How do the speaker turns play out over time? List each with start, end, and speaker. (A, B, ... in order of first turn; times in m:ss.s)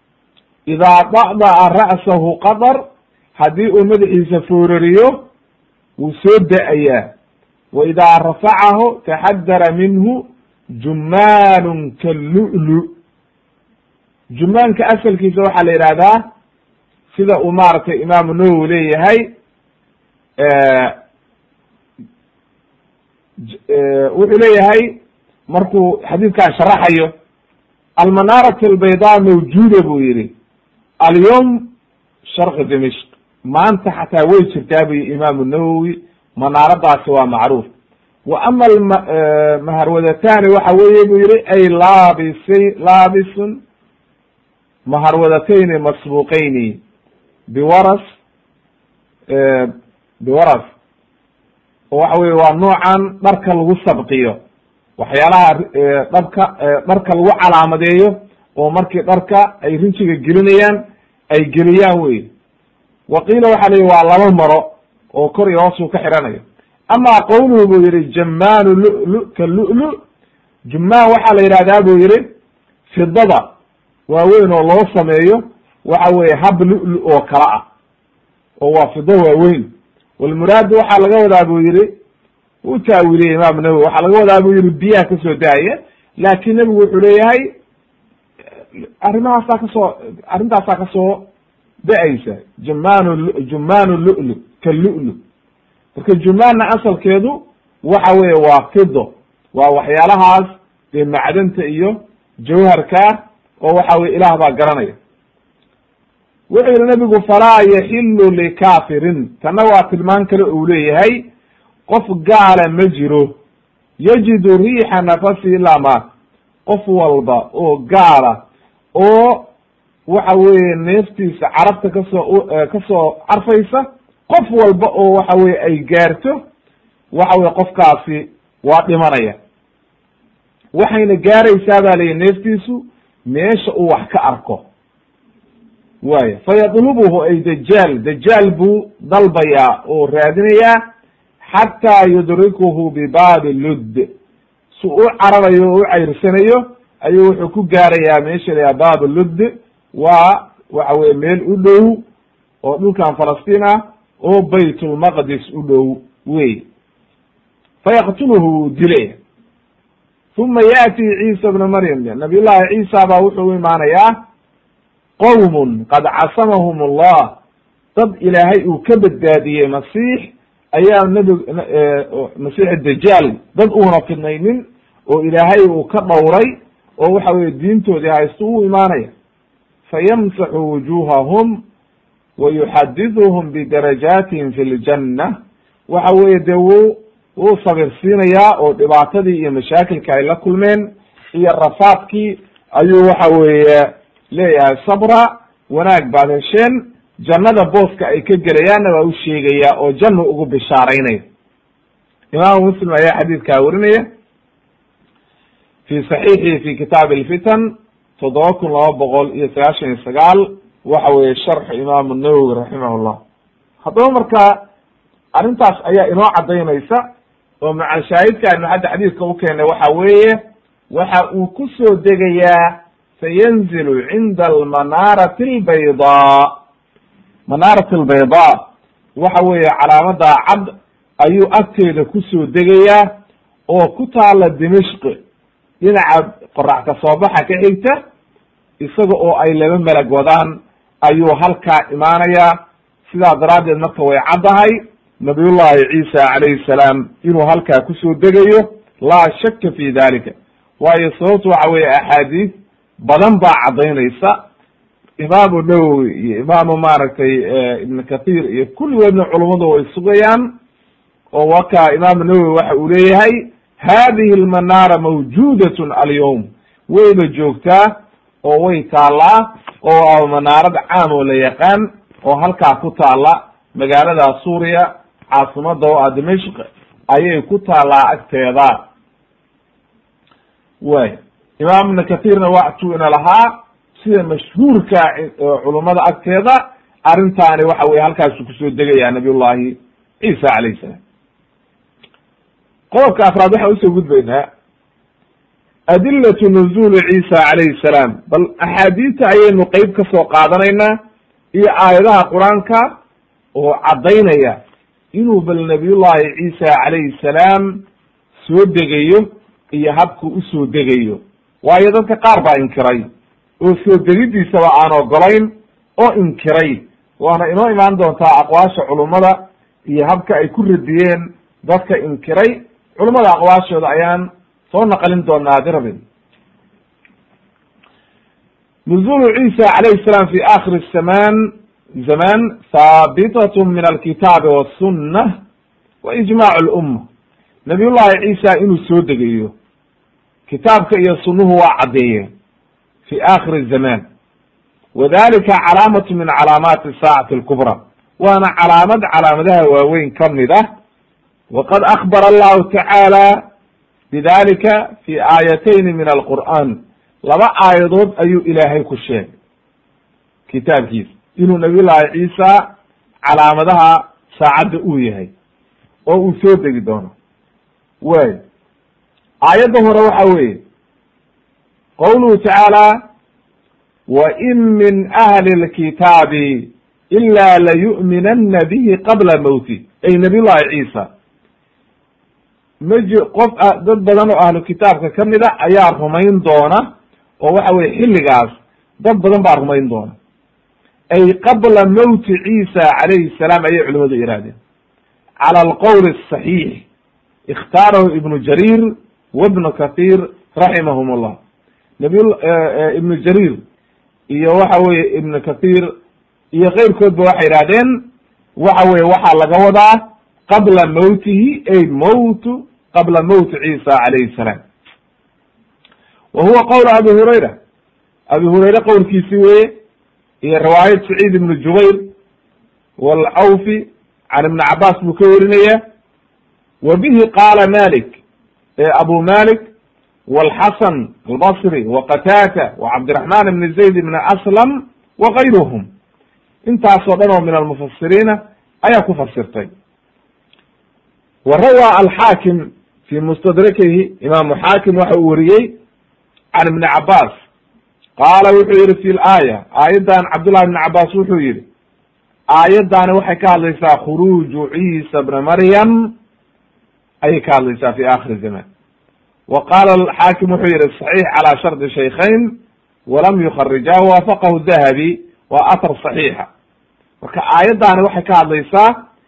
0:00.7-0:02.8 A
0:03.4-0:05.3 A
0:06.0-0:07.1 A
0:07.7-0:10.2 A
0:10.8-0:12.9 A
0:14.3-0:16.2 A
0:17.1-0:19.3 A
0:20.4-0:21.0 A
0:23.5-0:25.0 A
0:25.5-0:27.1 A
0:28.0-0:30.3 A
0:31.0-0:31.7 A
0:32.3-0:37.7 A
0:38.2-0:43.6 A
0:44.8-0:46.8 A
0:47.5-0:48.0 A
0:49.3-0:50.7 A
0:51.9-0:54.4 A
0:55.0-1:00.8 A
1:01.3-1:02.3 A
1:03.1-1:10.0 A
1:10.7-1:12.2 A
1:12.9-1:13.5 A
1:14.1-1:17.6 A
1:18.6-1:21.9 A
1:22.6-1:27.5 A
1:29.0-1:31.3 A
1:31.8-1:35.2 A
1:35.9-1:45.0 A
1:46.5-1:51.2 A
1:51.9-1:53.4 A
1:54.0-1:56.0 A
1:56.6-1:58.4 A
1:58.9-1:59.5 A
2:00.1-2:06.4 A
2:07.1-2:09.4 A
2:10.7-2:14.6 A
2:16.0-2:20.8 A
2:21.4-2:24.1 A
2:24.7-2:32.0 A
2:32.6-2:36.6 A
2:37.8-2:39.2 A
2:40.3-2:44.2 A
2:45.2-2:47.4 A
2:48.0-2:59.1 A
2:59.9-3:01.6 A
3:02.4-3:05.4 A
3:05.9-3:21.2 A
3:22.3-3:24.1 A
3:25.9-3:33.2 A
3:33.8-3:34.6 A
3:35.3-3:37.0 A
3:37.6-3:40.4 A
3:40.9-3:46.6 A
3:47.5-3:53.1 A
3:53.7-3:55.2 A
3:55.8-3:58.0 A
3:58.8-4:02.6 A
4:03.1-4:14.4 A
4:15.2-4:20.5 A
4:21.3-4:38.8 A
4:40.8-4:51.0 A
4:52.9-4:54.5 A
4:55.9-5:01.0 A
5:01.5-5:02.9 A
5:03.5-5:04.6 A
5:05.1-5:07.8 A
5:08.4-5:13.1 A
5:13.6-5:26.0 A
5:28.8-5:31.5 A
5:32.0-5:35.4 A
5:36.0-5:37.0 A
5:37.6-5:39.5 A
5:40.5-5:42.3 A
5:43.0-5:44.0 A
5:44.9-5:50.7 A
5:51.5-5:53.4 A
5:54.1-5:59.3 A
6:00.5-6:02.7 A
6:03.2-6:05.3 A
6:06.1-6:07.1 A
6:08.0-6:08.4 A
6:09.4-6:10.6 A
6:12.0-6:13.0 A
6:14.1-6:21.1 A
6:22.8-6:26.9 A
6:27.4-6:30.1 A
6:31.1-6:34.6 A
6:35.4-6:36.8 A
6:37.5-6:41.4 A
6:42.0-6:43.6 A
6:44.3-6:45.9 A
6:46.5-6:48.0 A
6:48.6-6:54.6 A
6:56.3-6:57.6 A
6:58.3-6:59.7 A
7:00.4-7:02.1 A
7:03.0-7:05.8 A
7:06.8-7:08.2 A
7:08.8-7:09.7 A
7:10.3-7:15.9 A
7:16.6-7:19.7 A
7:21.4-7:25.8 A
7:26.5-7:27.3 A
7:28.2-7:31.6 A
7:32.5-7:36.1 A
7:37.2-7:38.6 A
7:39.5-7:46.5 A
7:47.2-7:49.0 A